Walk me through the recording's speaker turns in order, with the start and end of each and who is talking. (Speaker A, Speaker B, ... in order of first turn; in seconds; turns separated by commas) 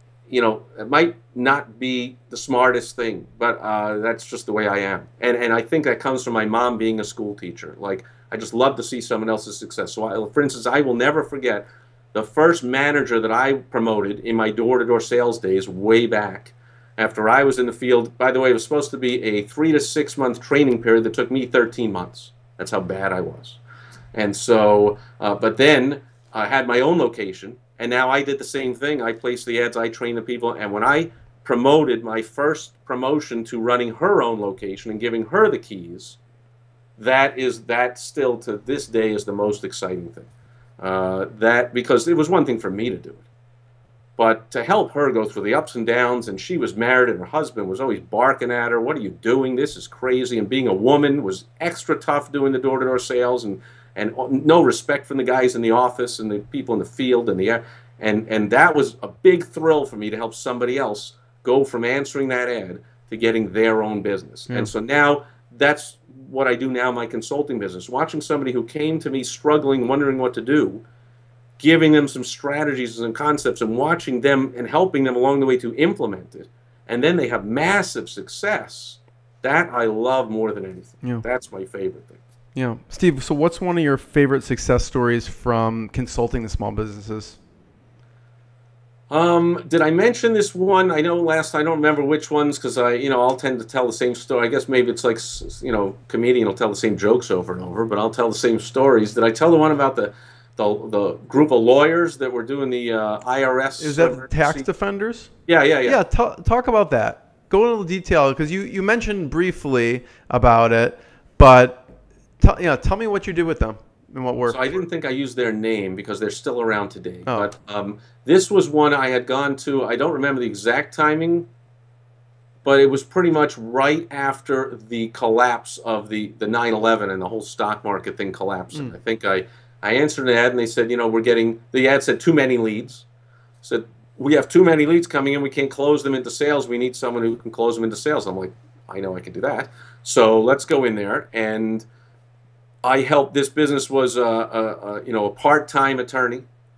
Speaker A: 0.3-23.6, Speaker A: 24.1-36.2, Speaker A: 37.0-40.3, Speaker A: 40.8-43.2, Speaker A: 44.2-70.8, Speaker A: 71.6-82.2, Speaker B: 82.5-87.4, Speaker A: 89.1-104.7, Speaker B: 103.8-105.3, Speaker A: 105.5-106.0, Speaker B: 105.8-111.9, Speaker B: 112.4-114.6, Speaker A: 114.5-121.5, Speaker B: 117.2-117.5, Speaker A: 122.6-133.1, Speaker A: 133.6-141.8, Speaker A: 142.8-146.4